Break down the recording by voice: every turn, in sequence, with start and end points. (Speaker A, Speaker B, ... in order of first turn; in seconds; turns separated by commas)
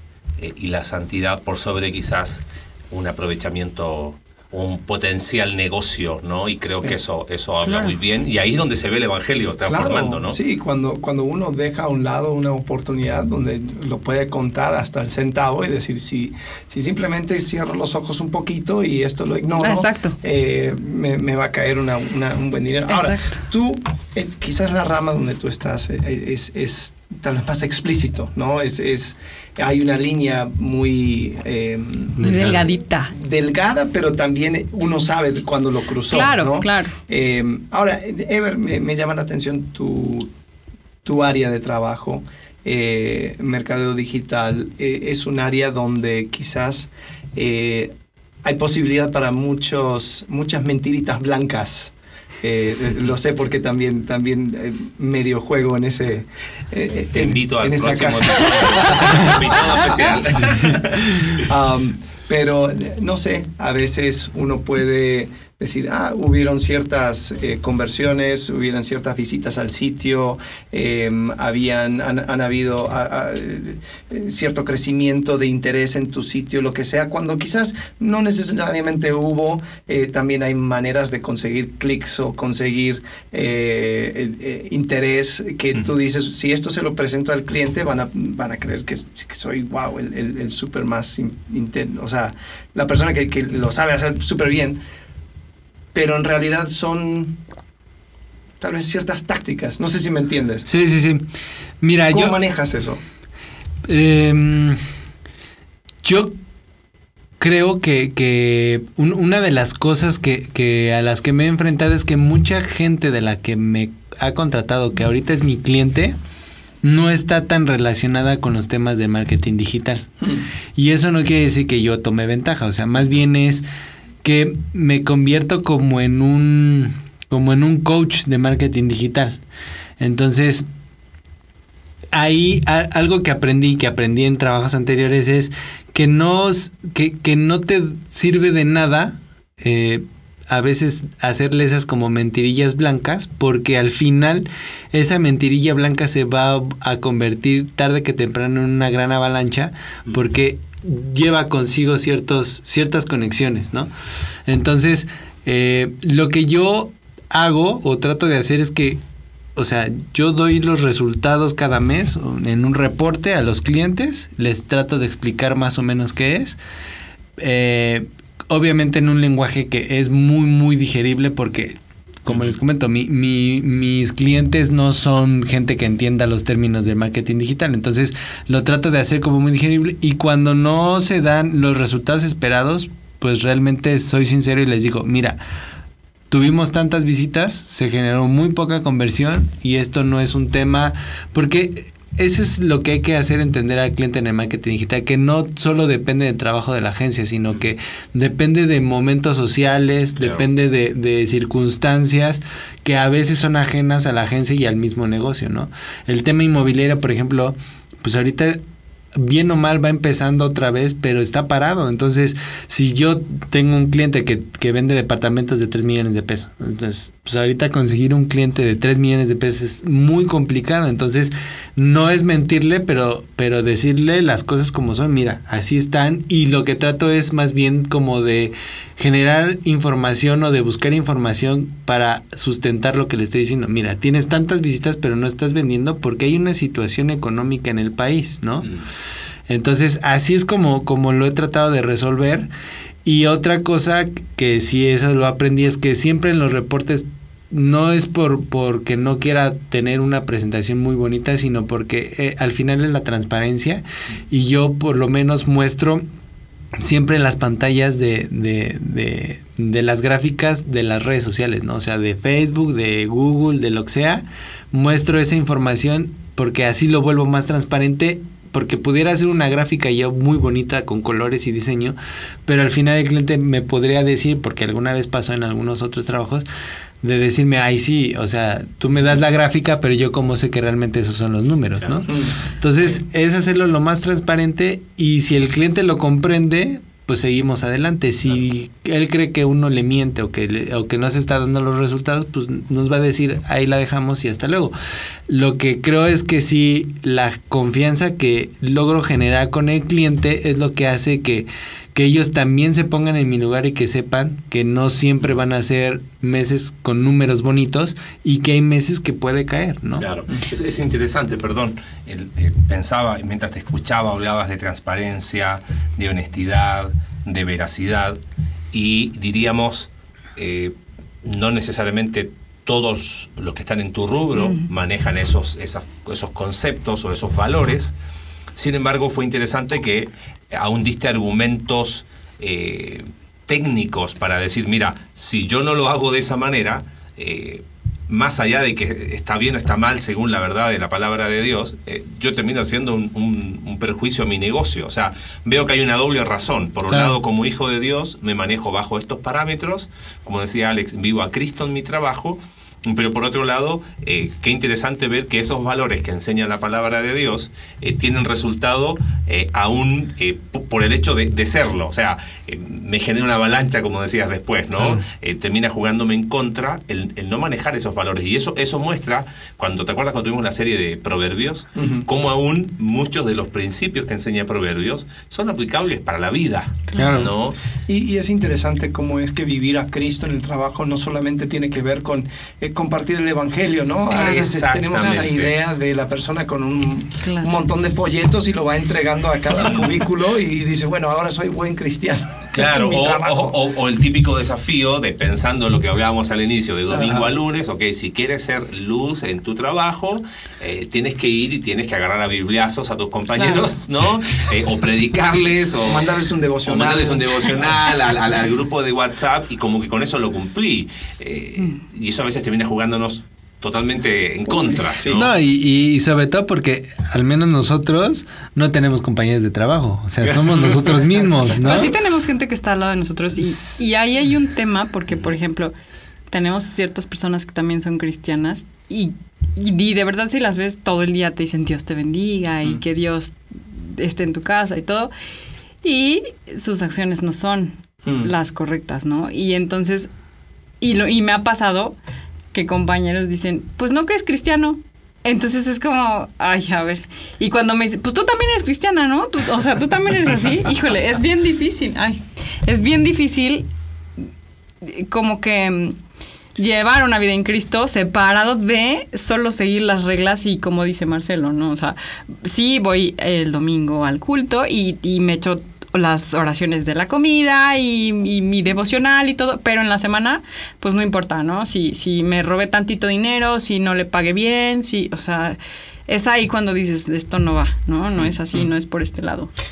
Speaker A: 0.4-10.4, Speaker B: 7.6-8.0, Speaker C: 9.7-40.3, Speaker B: 19.6-20.2, Speaker B: 22.9-23.4, Speaker D: 32.2-32.7, Speaker B: 32.2-33.1, Speaker B: 36.1-37.0, Speaker C: 41.0-47.9, Speaker C: 48.4-60.0, Speaker A: 57.1-61.4, Speaker C: 61.3-94.8, Speaker C: 95.9-97.4, Speaker C: 98.6-100.7, Speaker D: 100.7-101.3, Speaker D: 101.8-102.4, Speaker C: 102.1-103.0, Speaker D: 103.9-104.8, Speaker D: 106.0-106.4, Speaker D: 107.4-116.2, Speaker D: 116.8-120.1, Speaker D: 120.8-123.7, Speaker D: 124.2-129.4, Speaker D: 130.0-130.7, Speaker D: 132.1-153.9, Speaker D: 154.5-159.0, Speaker D: 159.6-166.6, Speaker D: 167.4-185.4, Speaker D: 186.3-208.6, Speaker A: 200.2-200.4, Speaker D: 209.2-238.7, Speaker A: 238.6-238.9, Speaker D: 239.5-242.5, Speaker D: 243.0-256.0, Speaker D: 256.8-276.5, Speaker D: 277.0-294.7, Speaker C: 282.1-282.4, Speaker D: 295.3-310.1, Speaker A: 310.0-318.2, Speaker A: 318.7-320.7, Speaker A: 321.2-327.9, Speaker A: 328.6-377.6, Speaker D: 346.9-347.2, Speaker C: 371.8-372.1, Speaker D: 377.0-377.3, Speaker C: 377.9-393.6, Speaker A: 384.1-385.6, Speaker B: 387.2-387.5, Speaker A: 392.5-415.3, Speaker C: 396.9-397.3, Speaker C: 405.9-407.6, Speaker C: 414.9-415.2, Speaker D: 415.1-421.9, Speaker A: 420.2-421.0, Speaker B: 421.6-425.7, Speaker B: 426.3-435.1, Speaker B: 435.8-440.1, Speaker C: 438.1-438.3, Speaker B: 440.8-442.0, Speaker B: 442.5-453.7, Speaker B: 454.8-456.0, Speaker B: 456.6-479.5